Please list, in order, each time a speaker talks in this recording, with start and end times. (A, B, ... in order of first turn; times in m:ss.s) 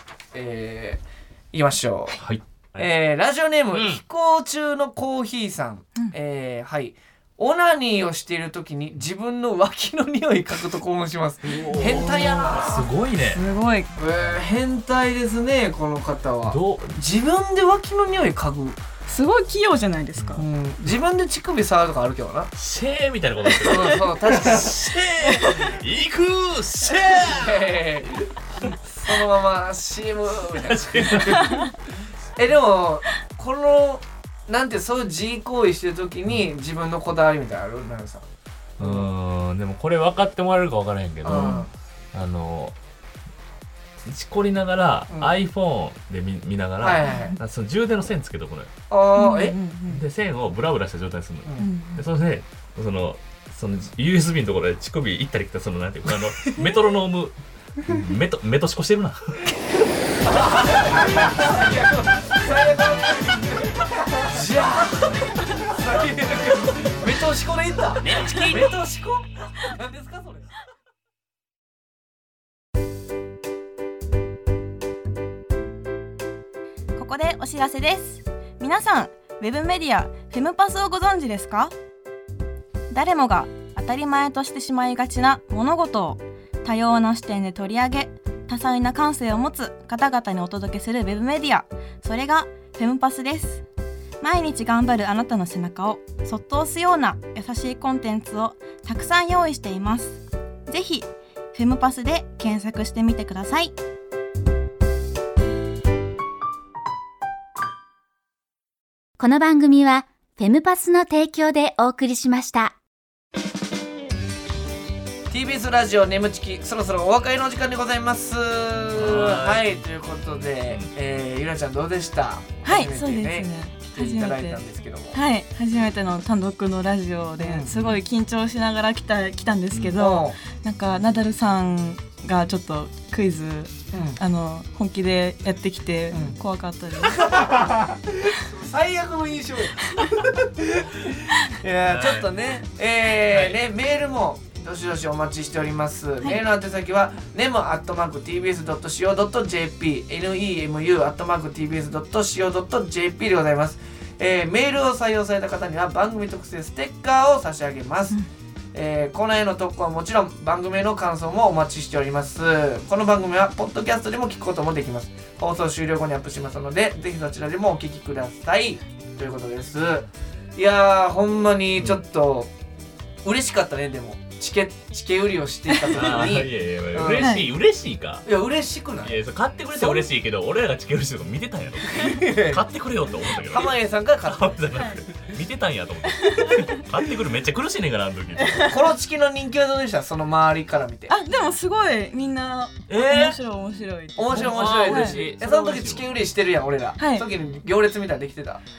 0:00.3-0:02.2 A
0:02.2-0:02.9 B
0:02.8-0:12.9 A
0:03.7-0:04.0 B
0:11.4-0:13.4 B
0:13.3-0:13.9 C
0:13.9-0:18.8 A
0:16.5-0:17.0 B
0:19.0-0:20.4 C
0:20.2-0:20.4 B
0:20.4-0:22.5 A
0:22.6-0:28.2 B
0:23.6-0:25.8 A
0:27.0-0:31.7 A
0:30.5-0:31.6 B
0:31.4-0:31.7 C
0:32.4-0:38.2 A
0:38.8-0:39.1 A
0:38.8-0:42.7 B
0:41.2-0:41.7 A
0:41.3-0:41.6 C
0:44.0-0:48.7 B
0:45.1-0:45.3 A
0:46.8-0:47.4 A
0:47.0-0:47.4 C
0:48.9-0:49.6 A
0:49.1-0:50.0 C
0:49.9-0:59.5 B
0:51.6-0:52.0 C
1:00.2-1:10.5 A
1:08.0-1:08.7 B
1:16.9-1:21.7 C
1:22.9-1:33.6 C
1:34.2-1:43.7 C
1:49.2-1:52.7 D
1:55.3-2:05.2 A
1:58.9-1:59.7 B
2:00.4-2:00.9 B
2:02.6-2:04.6 C
2:05.1-2:17.2 C
2:07.4-2:07.7 A
2:09.9-2:10.4 A
2:13.9-2:14.2 A
2:16.1-2:16.4 A
2:17.0-2:38.2 A
2:21.9-2:22.3 B
2:23.3-2:23.6 B
2:38.7-2:52.5 A
2:53.2-2:57.3 A
2:55.9-2:58.2 B
2:57.1-2:57.5 C
2:58.2-2:59.2 A
2:59.0-3:08.8 B
3:01.9-3:02.6 A
3:03.4-3:04.6 A
3:04.7-3:05.0 C
3:06.2-3:06.8 C
3:08.4-3:08.7 C
3:08.6-3:11.1 A
3:11.1-3:15.2 C
3:12.9-3:13.4 B
3:14.2-3:18.6 A
3:14.3-3:16.2 B
3:17.0-3:17.3 C